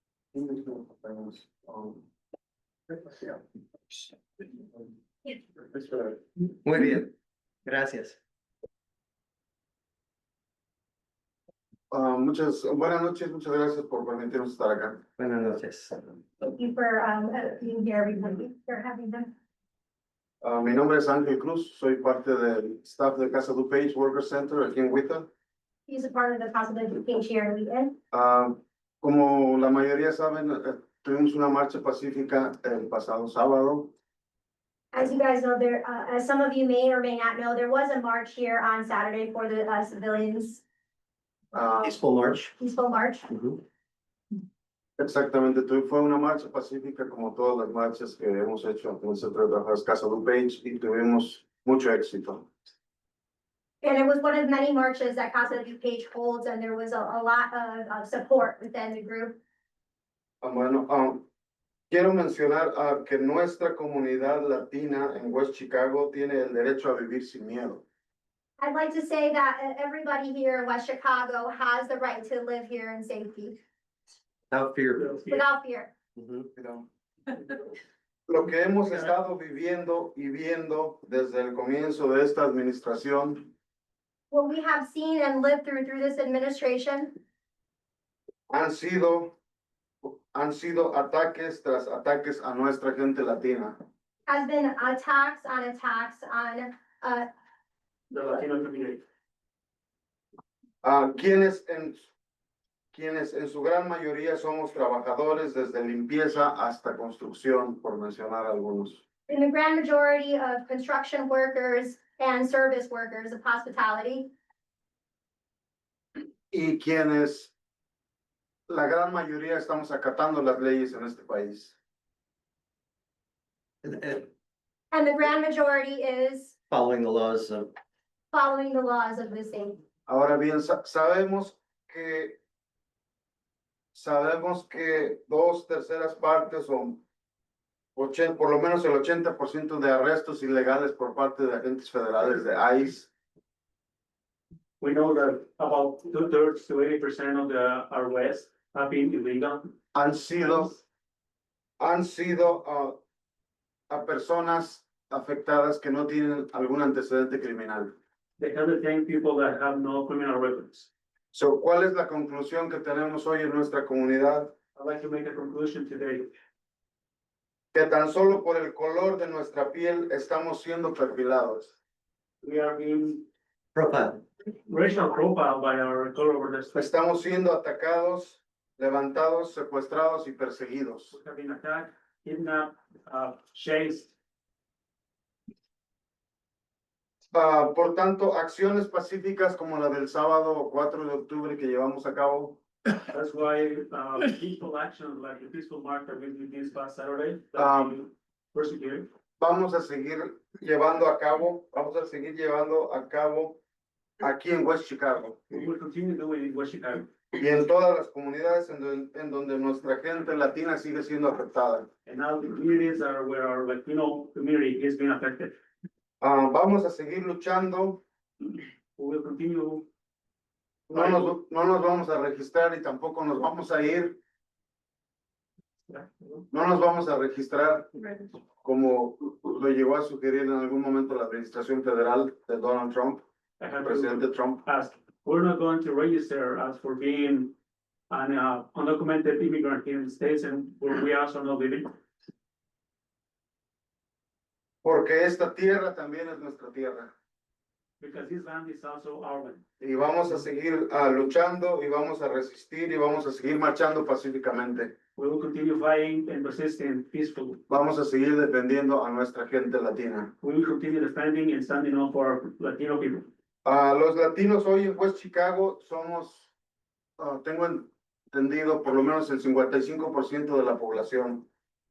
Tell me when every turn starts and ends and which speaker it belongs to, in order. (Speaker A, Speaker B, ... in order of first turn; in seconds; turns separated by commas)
Speaker A: 0.3-2.0, Speaker A: 5.7-6.2, Speaker B: 6.6-7.1, Speaker B: 7.6-8.2, Speaker A: 11.9-15.0, Speaker B: 15.2-16.2, Speaker C: 16.4-19.3, Speaker A: 20.4-25.3, Speaker C: 25.9-28.0, Speaker A: 28.1-33.9, Speaker C: 34.9-40.6, Speaker A: 41.5-41.8, Speaker B: 41.8-42.5, Speaker C: 42.6-43.3, Speaker B: 43.3-43.6, Speaker A: 45.0-52.5, Speaker C: 53.8-59.4, Speaker A: 60.4-61.2, Speaker A: 61.9-67.8, Speaker C: 68.6-73.6, Speaker B: 74.5-75.2, Speaker D: 75.0-75.3, Speaker C: 75.3-75.9, Speaker B: 76.2-76.5, Speaker A: 76.5-76.8, Speaker A: 78.3-83.5, Speaker C: 84.3-87.2, Speaker A: 88.5-89.3, Speaker A: 90.0-93.8, Speaker C: 94.3-97.3, Speaker D: 98.1-99.0, Speaker A: 100.8-102.0, Speaker A: 102.9-109.0, Speaker C: 109.3-114.3, Speaker A: 116.5-117.5, Speaker A: 118.7-121.7, Speaker B: 123.8-124.3, Speaker C: 124.9-126.5, Speaker B: 126.7-127.7, Speaker C: 128.3-129.8, Speaker A: 130.1-132.4, Speaker A: 133.9-137.0, Speaker A: 137.9-143.1, Speaker D: 144.8-149.7, Speaker A: 149.9-150.8, Speaker A: 151.8-153.0, Speaker A: 153.9-157.9, Speaker D: 158.4-160.9, Speaker A: 161.3-164.5, Speaker D: 164.8-166.3, Speaker A: 167.7-171.8, Speaker D: 172.4-173.3, Speaker B: 173.7-174.2, Speaker D: 174.7-176.8, Speaker A: 176.7-181.2, Speaker D: 181.1-184.1, Speaker A: 187.3-192.6, Speaker D: 193.1-199.1, Speaker A: 197.6-197.9, Speaker A: 199.4-203.6, Speaker A: 204.2-205.4, Speaker D: 205.5-207.1, Speaker A: 207.3-211.9, Speaker D: 212.1-215.6, Speaker A: 216.2-218.0, Speaker D: 219.0-219.9, Speaker D: 220.9-221.3, Speaker A: 220.9-224.2, Speaker D: 225.9-226.4, Speaker A: 226.5-227.9, Speaker A: 228.6-233.2, Speaker D: 233.6-237.5, Speaker A: 233.8-234.6, Speaker D: 238.1-241.9, Speaker A: 244.8-247.1, Speaker D: 248.0-249.6, Speaker A: 249.8-254.9, Speaker D: 255.2-257.6, Speaker A: 257.7-260.3, Speaker D: 260.4-263.3, Speaker A: 263.6-266.5, Speaker A: 267.2-271.4